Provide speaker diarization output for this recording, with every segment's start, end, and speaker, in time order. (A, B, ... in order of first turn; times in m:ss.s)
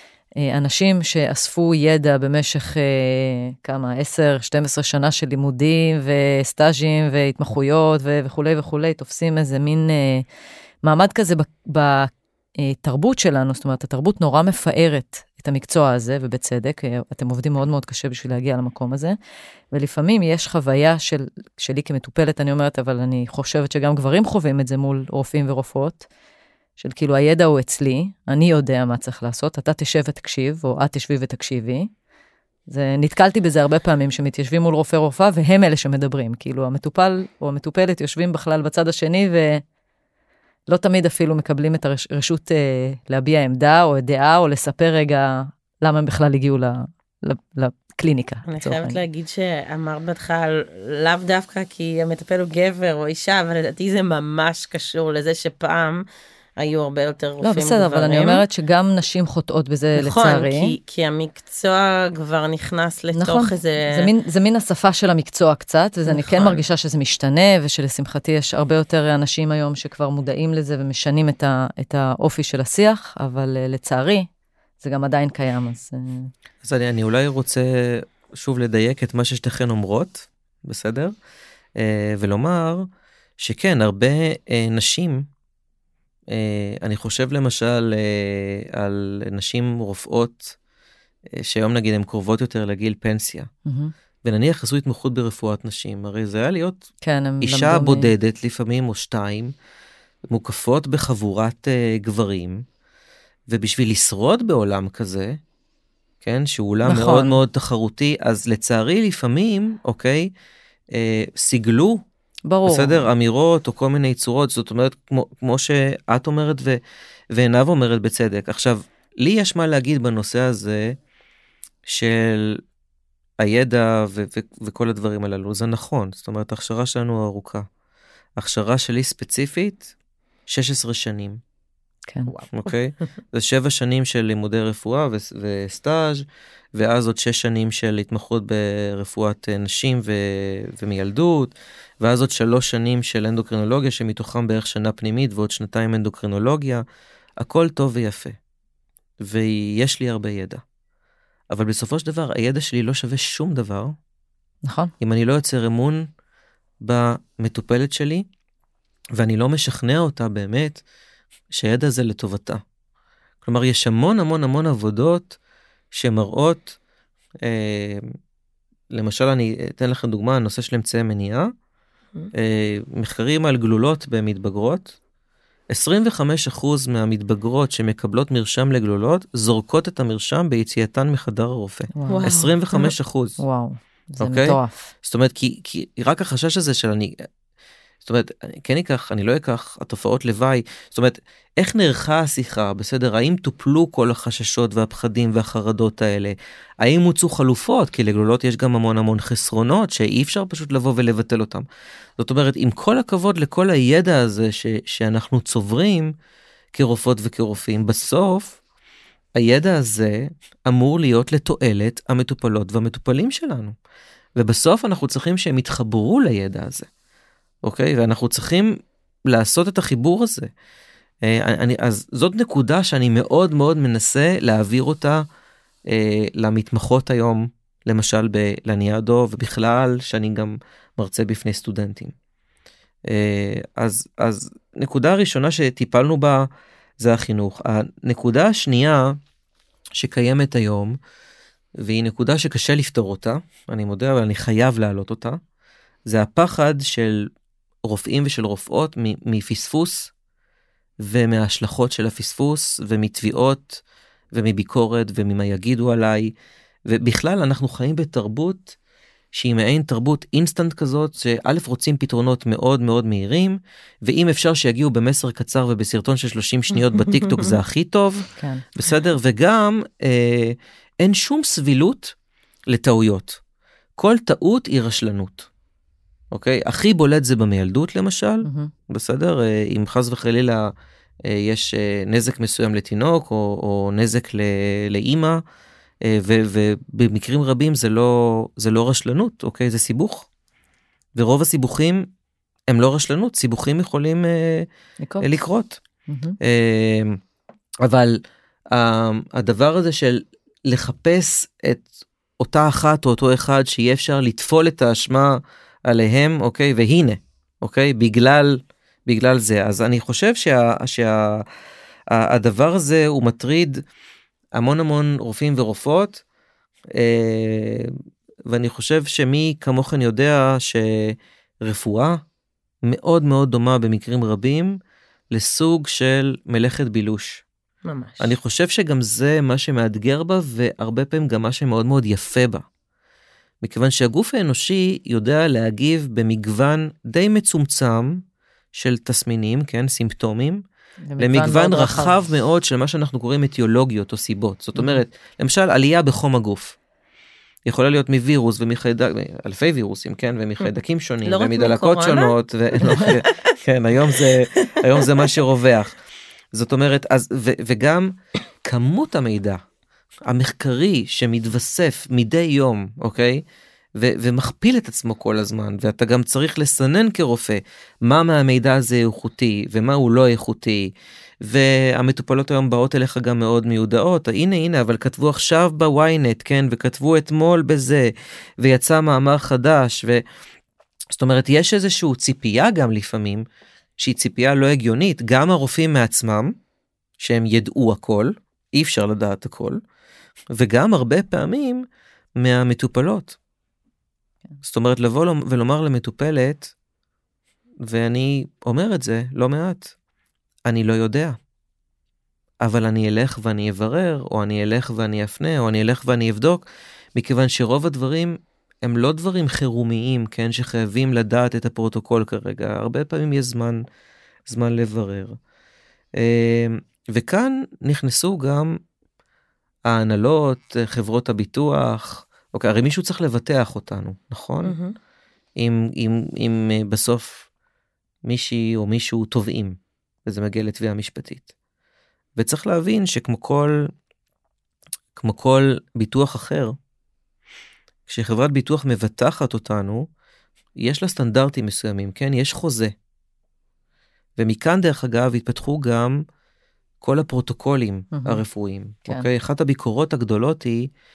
0:00.4-0:10.2 A
0:10.8-0:19.2 A
0:19.7-0:26.1 A
0:26.8-0:31.9 A
0:32.7-0:39.6 A
0:40.7-0:49.0 A
0:48.5-0:56.0 B
0:56.6-0:58.4 B
0:57.4-1:00.8 A
1:00.0-1:04.1 B
1:03.1-1:14.3 A
1:06.1-1:06.6 B
1:14.8-1:16.3 A
1:16.6-1:21.2 C
1:21.8-1:25.3 C
1:26.3-1:30.6 C
1:31.3-1:33.5 C
1:33.7-1:33.9 A
1:34.2-1:36.9 C
1:37.0-1:38.1 A
1:37.4-1:39.5 C
1:40.3-1:42.6 C
1:43.5-1:45.4 C
1:46.2-1:50.3 C
1:46.9-1:47.4 A
1:50.9-1:52.0 C
1:52.5-1:53.1 A
1:52.6-1:56.8 C
1:57.3-2:01.0 C
2:01.9-2:02.6 C
2:03.4-2:07.7 C
2:08.4-2:09.9 C
2:10.5-2:11.4 C
2:12.3-2:12.7 B
2:12.5-2:26.8 C
2:27.4-2:28.4 C
2:29.2-2:30.6 C
2:31.5-2:34.0 C
2:34.6-2:34.9 A
2:35.0-2:36.1 C
2:36.8-2:38.3 C
2:39.2-2:40.8 C
2:41.5-2:42.6 C
2:43.4-2:45.4 C
2:45.9-2:46.8 C
2:47.4-2:48.1 C
2:48.9-2:51.5 C
2:52.3-2:55.0 C
2:55.7-3:03.4 C
3:02.0-3:02.4 A
3:02.1-3:02.9 B
3:03.4-3:04.9 A
3:04.2-3:07.3 C
3:08.0-3:21.7 C
3:22.2-3:26.1 C
3:26.7-3:28.6 C
3:29.4-3:33.8 C
3:34.4-3:36.9 C
3:37.6-3:40.5 C
3:41.2-3:45.3 C
3:45.9-3:52.1 C
3:53.1-3:59.2 C
4:00.0-4:01.0 C
4:01.8-4:05.4 C
4:06.1-4:07.3 C
4:07.8-4:10.1 C
4:11.0-4:16.4 C
4:16.9-4:18.8 C
4:19.3-4:32.2 C
4:28.4-4:28.6 A
4:32.7-4:33.4 C
4:34.0-4:35.5 C
4:36.3-4:40.7 C
4:38.4-4:38.7 A
4:41.2-4:45.4 C
4:46.0-4:50.3 C
4:51.2-4:52.1 C
4:52.7-4:54.7 C
4:55.0-4:55.4 A
4:55.2-4:55.8 C
4:56.1-4:56.4 A
4:56.4-4:57.2 C
4:57.8-5:01.9 C
5:02.4-5:11.5 C
5:12.1-5:13.8 C
5:14.5-5:16.2 C
5:17.0-5:17.9 C
5:18.5-5:22.2 C
5:22.8-5:24.8 C
5:25.3-5:27.4 C
5:27.8-5:28.3 B
5:28.2-5:32.6 C
5:33.6-5:38.2 C
5:38.7-5:40.6 C
5:41.1-5:42.2 A
5:41.2-5:46.8 C
5:44.8-5:45.0 A
5:47.7-5:56.0 C
5:51.2-5:53.3 B
5:52.8-5:53.1 A
5:54.2-5:55.2 B
5:56.5-5:59.6 C
6:00.3-6:03.4 C
6:04.0-6:20.2 C
6:21.1-6:23.4 C
6:24.0-6:26.6 C
6:27.2-6:29.8 C
6:30.5-6:31.9 C
6:32.4-6:33.4 C
6:34.6-6:36.7 C
6:37.8-6:39.9 C
6:40.7-6:41.4 C
6:42.6-6:53.8 C
6:54.5-6:55.4 C
6:56.2-6:58.8 C
6:59.9-7:04.8 C
7:04.6-7:04.9 B
7:05.6-7:07.5 C
7:08.2-7:11.5 C
7:12.4-7:13.9 C
7:15.2-7:16.8 C
7:18.1-7:20.1 C
7:20.8-7:22.9 C
7:24.4-7:26.2 C
7:27.0-7:30.9 C
7:28.1-7:28.4 A